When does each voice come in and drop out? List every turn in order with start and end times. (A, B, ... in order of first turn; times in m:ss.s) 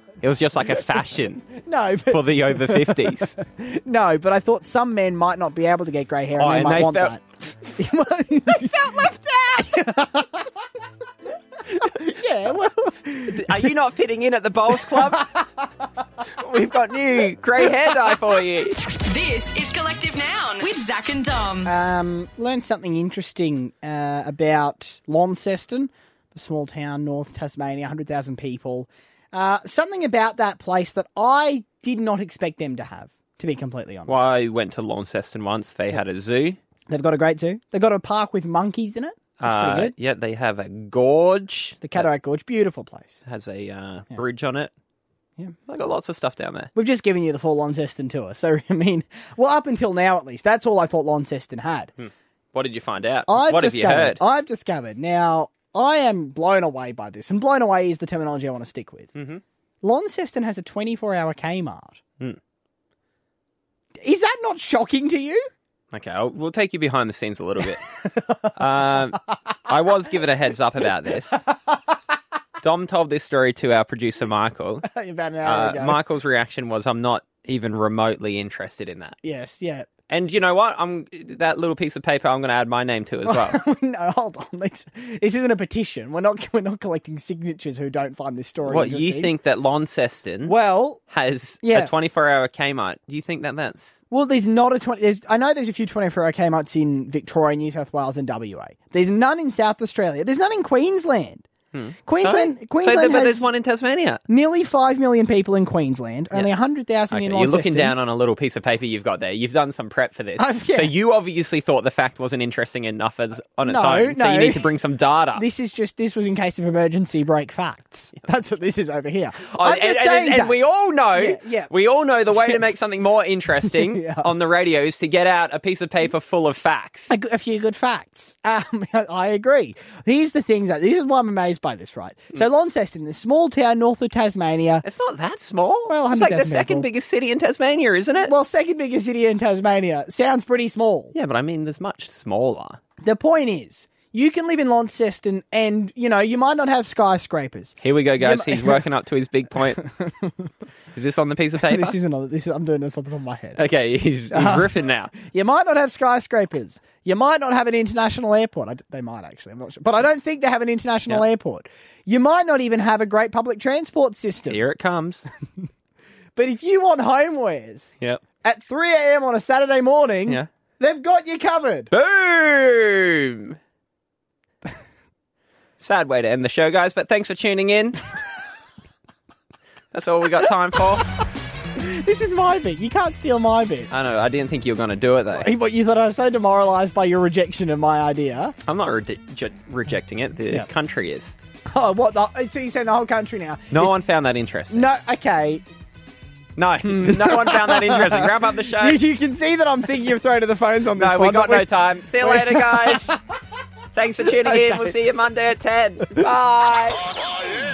0:00.2-0:01.5 A
0:01.5-0:07.2 B
0:02.1-0:03.4 A
0:06.4-0:07.7 A
0:07.8-0:09.1 B
0:08.5-0:09.8 A
0:09.6-0:10.5 B
0:11.7-0:13.7 B
0:13.3-0:15.3 A
0:14.8-0:15.4 B
0:16.4-0:18.8 A
0:18.9-0:21.7 C
0:21.6-0:34.3 B
0:34.1-0:36.6 A
0:36.9-0:39.9 B
0:39.4-0:42.0 A
0:41.8-0:43.2 B
0:43.3-0:44.7 A
0:45.7-0:46.7 A
0:46.8-0:51.9 B
0:52.0-0:54.2 A
0:53.3-0:59.2 B
0:59.2-0:59.4 A
0:59.8-1:02.0 B
1:04.0-1:05.5 B
1:05.9-1:11.4 A
1:12.6-1:14.9 A
1:14.8-1:16.0 B
1:15.4-1:19.2 A
1:19.2-1:19.9 B
1:20.1-1:23.6 A
1:23.3-1:29.3 B
1:28.6-1:30.5 A
1:30.5-1:31.0 B
1:31.1-1:34.0 A
1:31.6-1:31.9 B
1:34.1-1:41.5 B
1:41.7-1:44.2 A
1:42.1-1:43.5 B
1:44.3-1:48.0 B
1:47.1-1:55.4 A
1:50.4-1:50.9 B
1:53.7-1:54.7 B
1:55.4-2:00.6 B
1:59.5-2:07.2 A
2:01.1-2:01.7 B
2:03.6-2:04.3 B
2:07.1-2:14.8 B
2:14.8-2:18.3 A
2:15.9-2:16.9 B
2:18.2-2:21.2 B
2:21.2-2:22.8 A
2:23.0-2:28.8 B
2:27.8-2:29.8 A
2:29.7-2:30.5 B
2:31.0-2:32.0 A
2:31.6-2:33.6 B
2:33.6-2:35.1 A
2:34.3-2:44.6 B
2:44.5-2:45.2 A
2:46.4-2:51.9 B
2:51.9-2:53.6 A
2:55.8-2:58.0 A
2:59.9-3:01.1 A
3:01.8-3:03.9 B
3:03.9-3:05.5 A
3:05.4-3:08.6 B
3:08.7-3:11.4 A
3:11.7-3:14.0 B
3:13.7-3:14.9 A
3:14.7-3:15.6 B
3:16.6-3:19.0 A
3:16.8-3:23.2 B
3:21.0-3:23.2 A
3:24.0-3:27.1 A
3:24.2-3:25.0 B